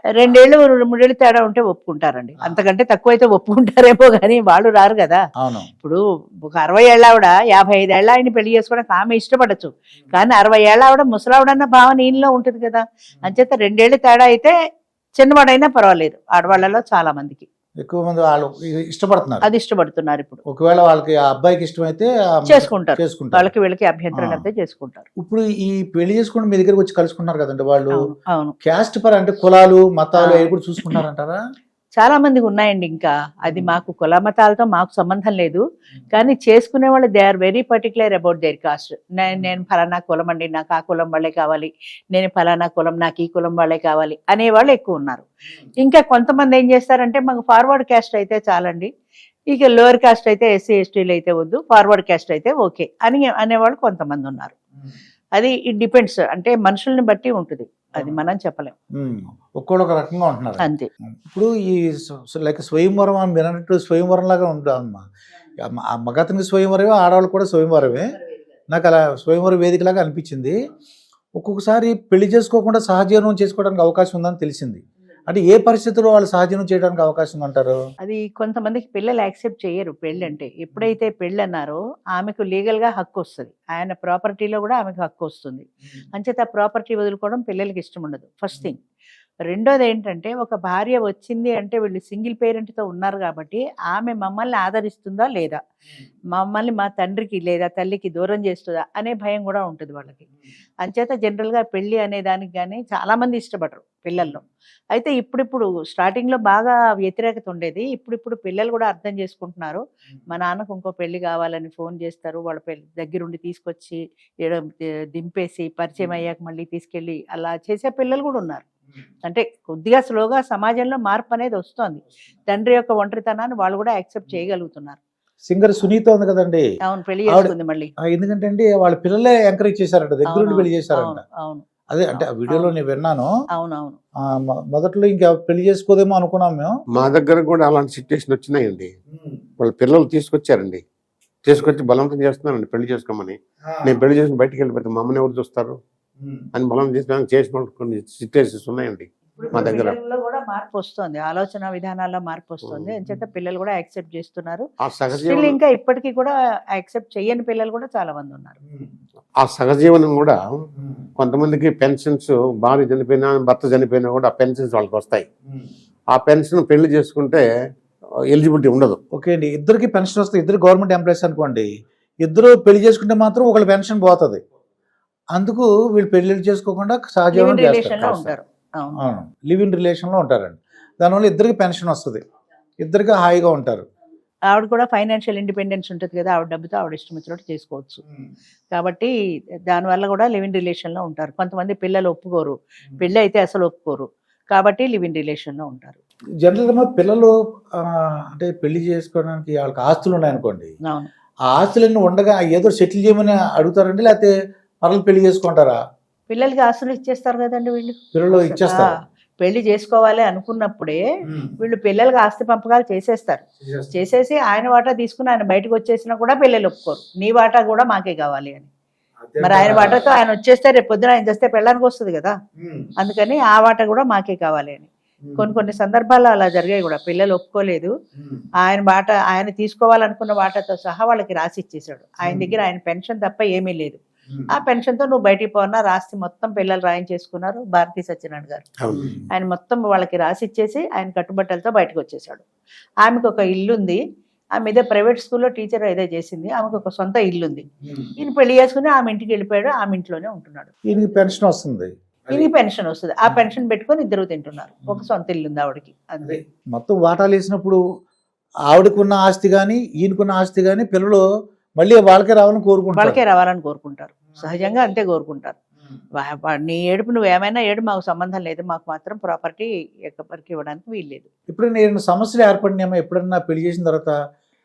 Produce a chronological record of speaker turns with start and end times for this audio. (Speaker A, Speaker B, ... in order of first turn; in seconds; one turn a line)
Speaker A: 0.2-5.2
Speaker B: 5.4-5.7
Speaker A: 5.8-14.5
Speaker A: 15.2-17.5
Speaker B: 17.8-19.5
Speaker A: 19.4-20.4
Speaker B: 20.5-23.5
Speaker A: 22.5-25.1
Speaker B: 24.1-24.4
Speaker B: 25.2-28.0
Speaker A: 28.0-28.6
Speaker B: 28.6-31.4
Speaker A: 30.2-31.0
Speaker A: 32.0-45.3
Speaker A: 45.8-48.9
Speaker A: 49.5-54.5
Speaker A: 55.4-58.8
Speaker B: 59.0-60.6
Speaker A: 60.6-60.9
Speaker B: 61.2-61.8
Speaker B: 62.3-65.0
Speaker B: 65.6-68.2
Speaker B: 68.7-70.6
Speaker B: 71.4-77.8
Speaker A: 78.0-88.8
Speaker A: 89.5-95.6
Speaker A: 96.3-100.3
Speaker A: 100.8-118.6
Speaker A: 119.2-125.0
Speaker B: 125.5-126.7
Speaker A: 126.8-127.9
Speaker B: 127.3-131.2
Speaker A: 130.3-132.7
Speaker B: 131.9-133.3
Speaker A: 133.5-134.0
Speaker B: 134.3-136.7
Speaker C: 137.0-138.9
Speaker B: 139.1-139.4
Speaker C: 139.6-140.8
Speaker C: 141.4-145.8
Speaker B: 143.7-144.0
Speaker B: 146.2-146.5
Speaker C: 146.6-150.0
Speaker B: 149.4-149.8
Speaker A: 149.4-158.6
Speaker C: 152.7-152.9
Speaker C: 154.8-155.6
Speaker C: 159.4-160.4
Speaker B: 160.8-161.1
Speaker C: 161.2-165.3
Speaker C: 166.1-167.5
Speaker C: 168.3-169.0
Speaker B: 169.1-171.7
Speaker B: 172.2-174.4
Speaker B: 175.3-178.3
Speaker A: 177.3-179.0
Speaker B: 179.0-182.2
Speaker B: 182.8-183.9
Speaker A: 184.5-188.0
Speaker A: 188.7-189.1
Speaker A: 189.7-196.0
Speaker B: 196.4-200.7
Speaker A: 200.8-201.1
Speaker B: 201.5-205.8
Speaker A: 206.3-211.1
Speaker B: 208.1-209.0
Speaker B: 211.3-211.6
Speaker A: 211.6-218.7
Speaker B: 213.6-213.9
Speaker B: 219.3-220.0
Speaker A: 219.4-222.4
Speaker B: 222.6-222.9
Speaker A: 223.0-227.9
Speaker B: 225.3-225.5
Speaker A: 228.6-234.0
Speaker B: 232.2-232.6
Speaker A: 234.5-238.7
Speaker C: 238.8-239.1
Speaker B: 238.9-239.3
Speaker A: 239.3-242.4
Speaker A: 243.0-244.0
Speaker A: 244.6-250.7
Speaker B: 250.9-252.5
Speaker A: 252.3-256.4
Speaker B: 256.2-257.8
Speaker B: 258.7-261.2
Speaker B: 261.8-263.2
Speaker A: 262.9-265.6
Speaker A: 266.2-271.3
Speaker B: 271.5-274.1